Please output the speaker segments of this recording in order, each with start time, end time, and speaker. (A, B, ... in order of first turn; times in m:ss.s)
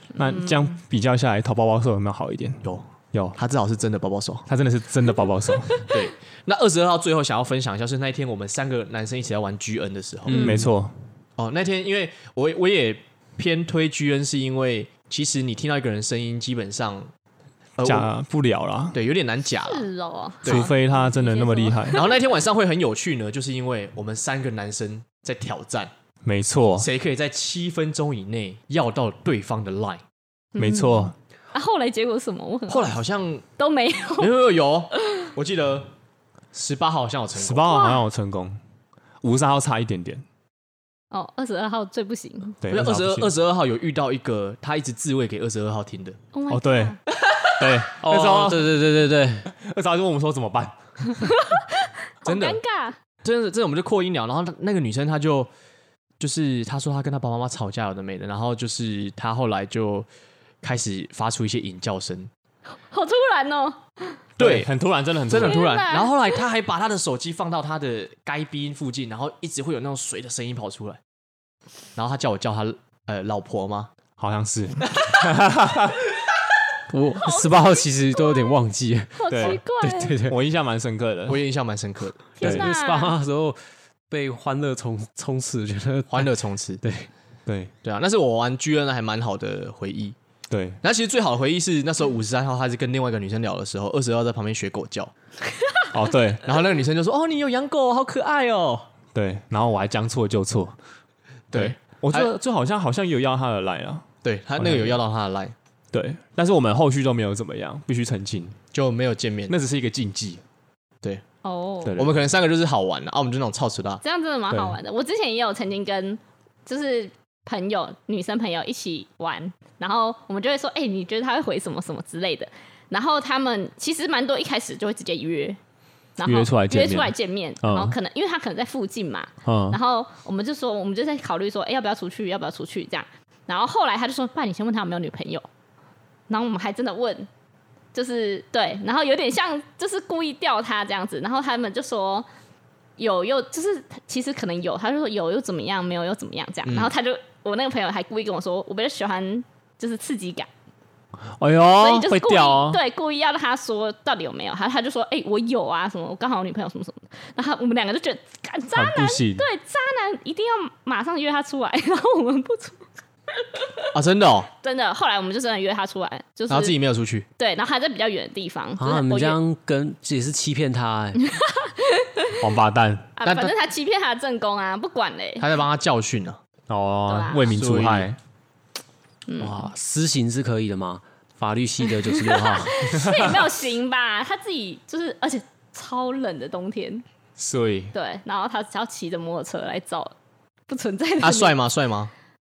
0:00.2-0:03.4 A
0:00.2-0:00.7 B
0:02.6-0:04.5 C
0:04.5-0:05.9 A
0:05.9-0:10.5 C
0:10.3-0:10.7 D
0:10.3-0:11.0 A
0:10.3-0:10.6 B
0:11.4-0:17.1 C
0:17.8-0:18.1 C
0:17.8-0:19.0 A
0:18.9-0:19.9 C
0:19.6-0:22.2 B
0:20.4-0:20.7 C
0:20.4-0:22.0 A
0:21.9-0:25.9 C
0:26.2-0:26.9 A
0:26.8-0:30.0 C
0:30.6-0:32.9 B
0:30.6-0:31.1 A
0:32.7-0:33.4 C
0:33.6-0:34.3 B
0:34.2-0:35.9 C
0:35.0-0:35.3 B
0:36.5-0:37.7 C
0:37.4-0:38.6 A
0:37.7-0:38.0 B
0:39.2-0:40.2 A
0:41.1-0:42.6 B
0:42.6-0:43.3 A
0:42.7-0:46.2 C
0:46.3-0:47.0 B
0:46.5-0:47.0 A
0:47.6-0:48.8 A
0:48.0-0:49.5 D
0:49.5-0:50.8 A
0:51.1-0:53.0 B
0:52.2-0:52.6 C
0:53.2-0:55.5 C
0:56.2-1:00.1 C
1:00.6-1:02.3 C
1:02.9-1:04.2 B
1:04.4-1:04.7 C
1:04.4-1:05.6 A
1:05.3-1:11.0 C
1:05.3-1:06.4 B
1:12.0-1:13.9 C
1:14.2-1:16.0 A
1:16.9-1:20.4 D
1:17.2-1:18.6 B
1:19.2-1:20.2 B
1:19.3-1:19.6 A
1:20.2-1:21.4 A
1:21.3-1:22.2 C
1:22.4-1:23.2 B
1:22.4-1:22.7 A
1:22.4-1:27.1 D
1:26.1-1:26.8 C
1:27.5-1:27.7 A
1:27.8-1:30.2 C
1:30.5-1:30.8 A
1:30.8-1:35.1 C
1:35.9-1:36.5 A
1:36.4-1:38.9 C
1:39.1-1:40.8 A
1:41.5-1:42.3 C
1:41.5-1:44.1 A
1:44.2-1:45.6 C
1:44.6-1:45.0 A
1:45.9-1:48.6 A
1:48.7-1:49.5 C
1:49.5-1:50.4 A
1:51.4-1:52.0 B
1:51.8-1:52.2 A
1:52.0-1:54.0 C
1:54.0-2:05.6 B
1:54.5-1:54.8 A
2:06.2-2:15.4 B
2:06.2-2:08.0 A
2:09.4-2:09.8 A
2:16.3-2:17.3 B
2:17.9-2:22.3 B
2:23.0-2:30.5 B
2:26.6-2:26.9 C
2:31.4-2:32.8 A
2:31.8-2:43.9 B
2:38.7-2:39.4 A
2:43.9-2:44.5 C
2:44.6-2:46.8 B
2:46.5-2:47.3 C
2:47.4-2:49.4 B
2:48.8-2:51.3 D
2:51.2-2:52.4 B
2:52.4-2:53.2 A
2:53.2-2:55.5 B
2:53.2-2:53.5 C
2:55.4-2:56.4 C
2:56.7-2:58.2 A
2:57.1-2:57.6 B
2:57.5-2:58.1 C
2:59.3-2:59.7 B
2:59.4-3:03.0 D
3:02.0-3:07.0 B
3:02.9-3:03.4 A
3:07.4-3:07.9 A
3:07.9-3:10.1 B
3:10.7-3:11.6 B
3:11.2-3:12.1 C